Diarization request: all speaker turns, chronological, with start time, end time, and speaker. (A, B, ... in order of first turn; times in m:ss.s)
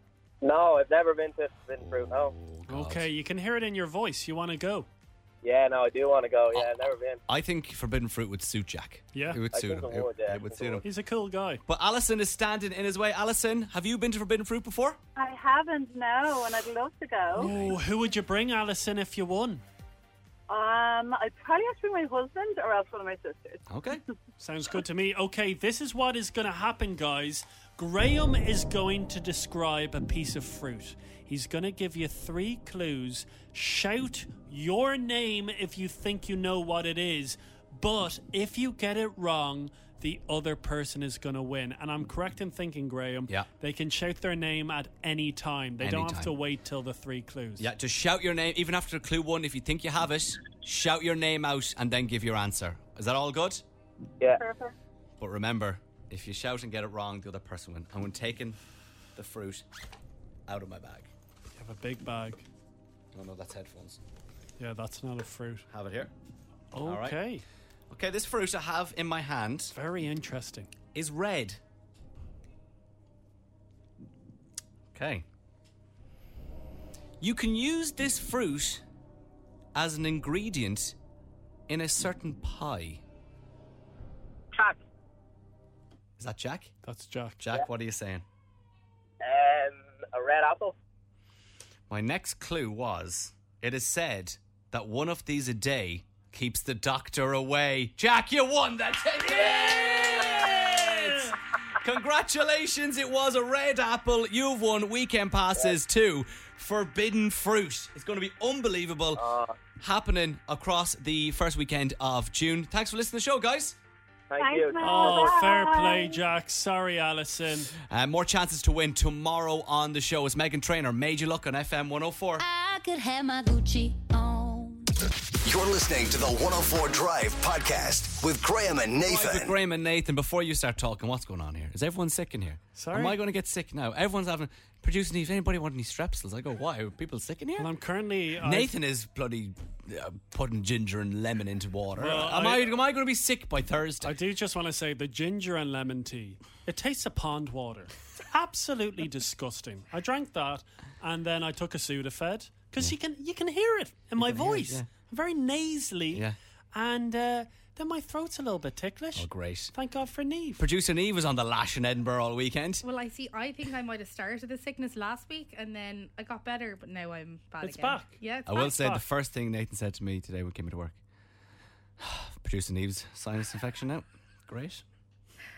0:00.4-0:02.3 A
0:01.8-0:03.1 B
0:02.7-0:04.9 C
0:05.4-0:07.2 A
0:06.5-0:10.9 B
0:09.1-0:09.4 C
0:09.5-0:10.8 A
0:10.8-0:11.6 C
0:11.7-0:15.0 B
0:15.2-0:17.5 D
0:17.4-0:19.6 C
0:17.4-0:17.8 B
0:20.5-0:23.7 D
0:23.7-0:24.0 B
0:24.4-0:47.7 C
0:45.8-0:46.3 B
0:47.6-0:53.6 B
0:54.3-0:54.7 D
0:55.2-0:58.6 B
0:59.2-0:59.6 B
1:00.5-1:01.1 B
1:01.6-1:02.4 C
1:03.1-1:04.0 B
1:04.6-1:05.7 C
1:05.7-1:06.1 B
1:06.7-1:07.4 C
1:06.8-1:07.2 B
1:07.9-1:09.8 B
1:09.7-1:10.7 C
1:10.9-1:11.6 B
1:14.9-1:15.2 B
1:17.2-1:18.8 B
1:19.8-1:21.0 B
1:21.7-1:23.0 B
1:26.2-1:26.7 B
1:26.8-1:27.4 C
1:27.4-1:28.2 B
1:29.2-1:30.8 A
1:31.9-1:49.3 B
1:40.1-1:41.3 C
1:49.2-1:49.5 A
1:49.8-1:53.8 B
1:54.3-1:55.3 A
1:54.4-1:56.2 D
1:54.8-1:57.7 C
1:54.9-1:55.2 E
1:57.9-2:02.4 B
2:02.4-2:04.9 E
2:05.4-2:09.6 F
2:09.0-2:17.7 B
2:12.8-2:13.2 C
2:17.6-2:18.7 C
2:18.4-2:24.2 B
2:22.0-2:22.8 C
2:24.0-2:40.6 C
2:34.2-2:34.9 B
2:39.2-2:39.7 B
2:40.6-2:42.8 B
2:42.8-2:48.8 G
2:47.6-2:49.0 C
2:48.5-2:51.0 B
2:52.0-2:54.8 B